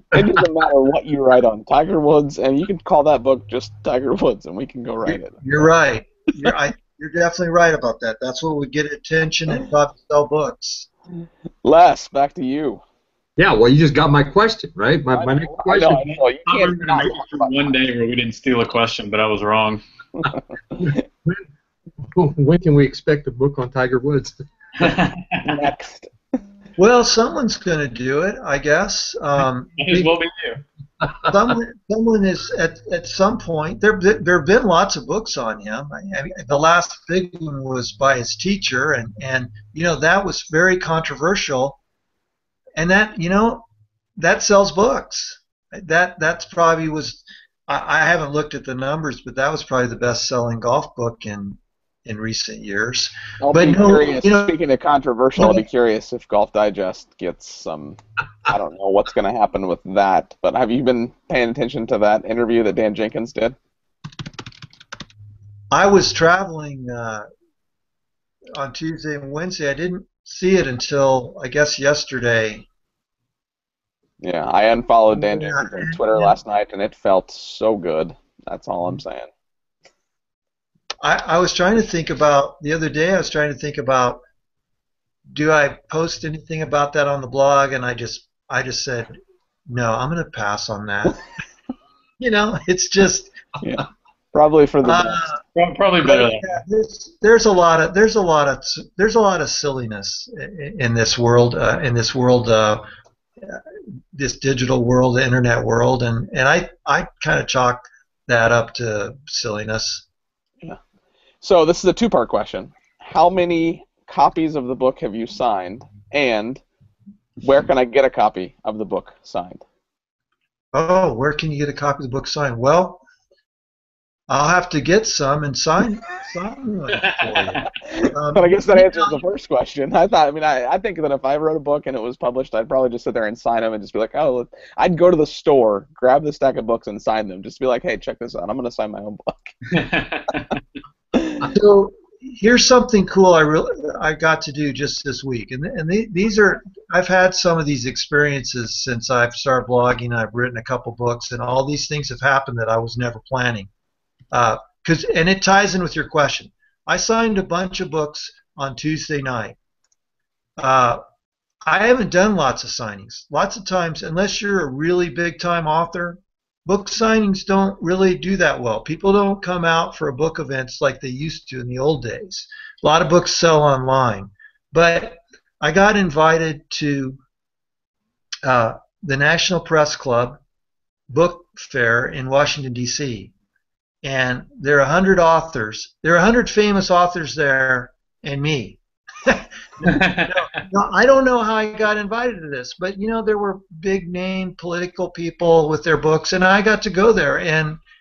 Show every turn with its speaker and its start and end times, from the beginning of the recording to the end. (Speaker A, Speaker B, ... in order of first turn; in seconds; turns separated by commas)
Speaker A: 0.1-5.7, Speaker B: 5.0-10.9, Speaker A: 11.6-12.8, Speaker C: 13.4-16.2, Speaker A: 15.1-17.7, Speaker D: 16.5-19.8, Speaker C: 20.8-21.4, Speaker C: 22.0-24.4, Speaker D: 24.8-25.5, Speaker A: 25.4-26.1, Speaker B: 26.8-29.7, Speaker D: 29.8-30.6, Speaker B: 31.2-41.8, Speaker B: 42.8-43.6, Speaker B: 44.2-54.6, Speaker A: 53.4-63.5, Speaker B: 55.4-55.6, Speaker B: 65.7-67.2, Speaker B: 68.5-72.6, Speaker A: 74.2-79.3, Speaker B: 75.1-76.4, Speaker B: 81.0-84.2, Speaker B: 85.3-89.1, Speaker B: 89.7-91.2, Speaker B: 92.2-93.4, Speaker A: 93.6-95.3, Speaker B: 94.8-95.4, Speaker D: 95.5-96.4, Speaker B: 96.0-102.8, Speaker B: 104.1-110.0, Speaker A: 111.4-116.6, Speaker A: 117.4-119.6, Speaker B: 120.7-123.0, Speaker B: 124.3-129.2, Speaker A: 127.8-139.6, Speaker D: 139.7-140.6, Speaker A: 141.1-141.5, Speaker B: 141.4-153.7, Speaker B: 154.3-159.6, Speaker B: 160.6-161.0, Speaker B: 161.7-177.2, Speaker B: 178.4-180.4, Speaker B: 181.1-183.3, Speaker B: 184.0-197.8, Speaker D: 189.8-190.3